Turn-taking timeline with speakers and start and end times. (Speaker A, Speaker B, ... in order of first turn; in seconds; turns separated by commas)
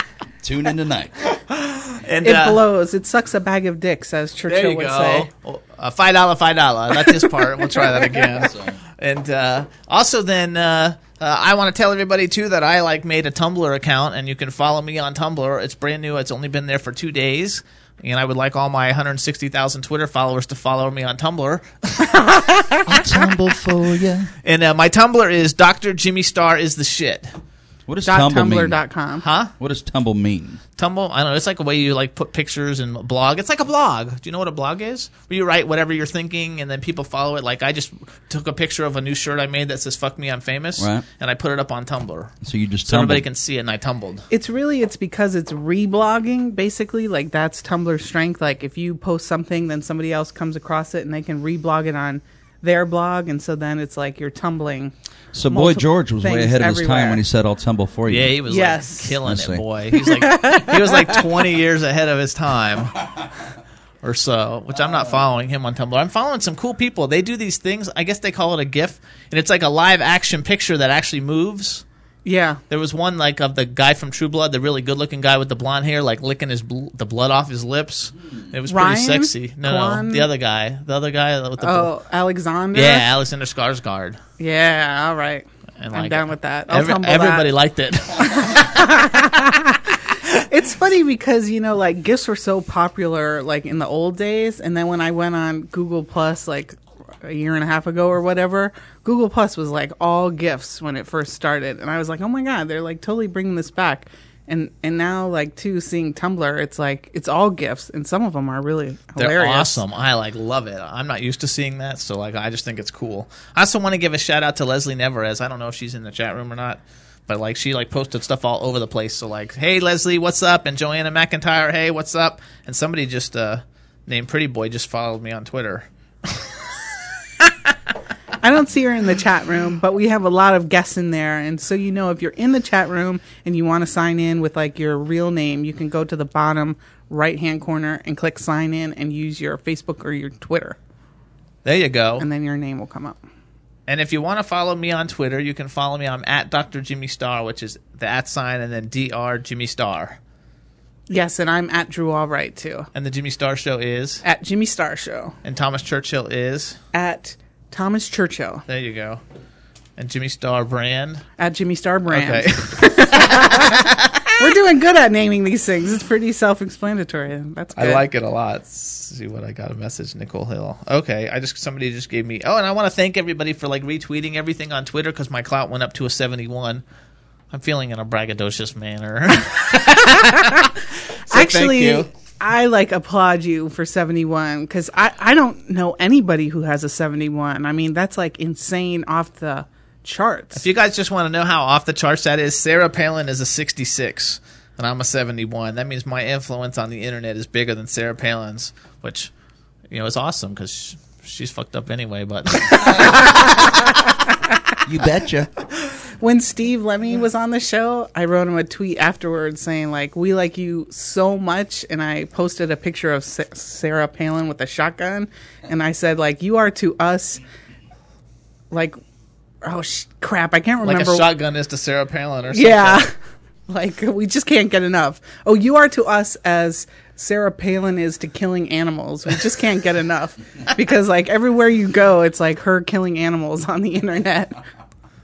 Speaker A: 0.4-1.1, Speaker B: 1.5-2.6, Speaker C: 2.2-5.3, Speaker B: 4.5-22.2, Speaker C: 6.9-8.0, Speaker A: 8.4-8.8, Speaker A: 22.9-24.3, Speaker B: 24.4-27.3, Speaker A: 27.9-28.9, Speaker C: 28.0-29.2, Speaker B: 29.2-29.5, Speaker A: 29.6-30.6, Speaker B: 30.8-42.3, Speaker A: 40.8-41.0, Speaker A: 42.4-43.2, Speaker B: 42.9-44.3, Speaker C: 44.3-54.9, Speaker A: 55.3-58.4, Speaker C: 55.5-57.2, Speaker B: 58.1-63.0, Speaker C: 58.5-59.2, Speaker A: 59.2-59.6, Speaker C: 60.0-61.2, Speaker B: 64.0-71.8, Speaker C: 72.2-72.6, Speaker B: 72.7-81.9, Speaker C: 78.7-80.3, Speaker C: 81.6-83.0, Speaker B: 82.7-84.2, Speaker C: 84.4-87.5, Speaker B: 85.8-89.0, Speaker C: 88.2-109.8, Speaker B: 109.2-126.6, Speaker B: 127.4-127.7, Speaker C: 128.4-140.8, Speaker B: 141.6-142.3, Speaker C: 142.2-143.2, Speaker B: 143.9-150.2, Speaker C: 151.1-152.9, Speaker B: 152.9-154.2, Speaker C: 154.2-155.3, Speaker B: 155.4-156.8, Speaker C: 156.9-158.6, Speaker B: 158.7-159.2, Speaker B: 160.0-161.2, Speaker C: 161.4-168.0, Speaker B: 162.1-164.3, Speaker B: 167.8-176.8, Speaker B: 177.5-180.6, Speaker B: 181.3-182.1, Speaker C: 181.3-190.6, Speaker B: 190.5-199.3, Speaker B: 199.9-203.6, Speaker A: 204.8-205.5, Speaker C: 206.2-217.4, Speaker C: 218.7-219.0, Speaker C: 219.6-221.2, Speaker B: 220.8-223.1, Speaker C: 222.5-223.1, Speaker C: 223.7-234.6